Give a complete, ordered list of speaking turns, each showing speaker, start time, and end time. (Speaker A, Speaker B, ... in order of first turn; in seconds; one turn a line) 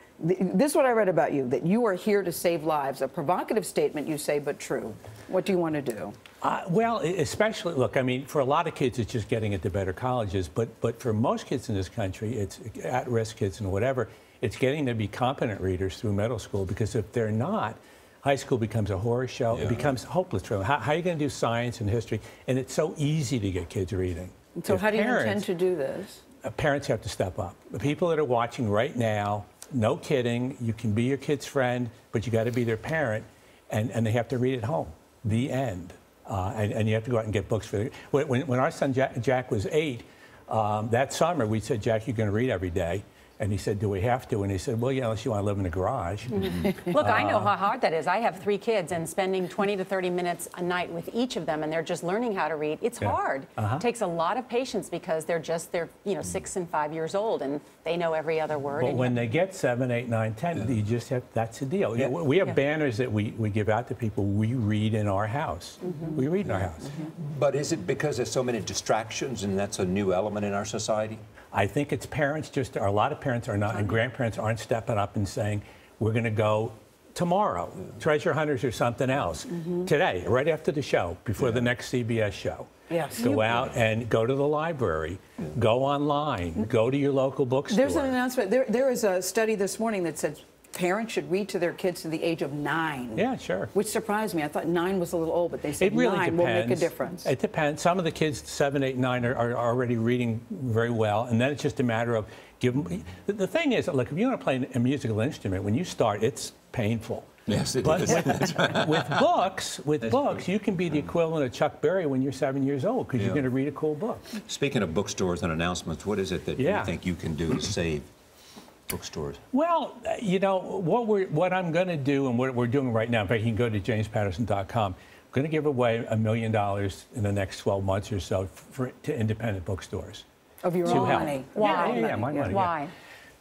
Speaker A: 0.2-6.1
Speaker B: 6.4-25.5
Speaker C: 19.5-19.9
Speaker A: 24.6-26.2
Speaker B: 26.4-47.5
Speaker D: 46.5-59.2
Speaker B: 53.0-53.8
Speaker B: 58.8-66.9
Speaker C: 66.4-71.2
Speaker B: 71.5-88.1
Speaker C: 81.4-81.7
Speaker A: 82.9-83.4
Speaker A: 87.7-97.3
Speaker B: 93.2-93.7
Speaker B: 95.8-107.3
Speaker C: 107.5-109.2
Speaker B: 107.8-114.3
Speaker C: 110.0-110.4
Speaker C: 113.1-113.4
Speaker C: 114.4-118.1
Speaker B: 116.5-117.0
Speaker C: 118.9-119.4
Speaker B: 119.5-130.2
Speaker A: 130.6-132.6
Speaker B: 130.8-132.8
Speaker D: 130.8-132.9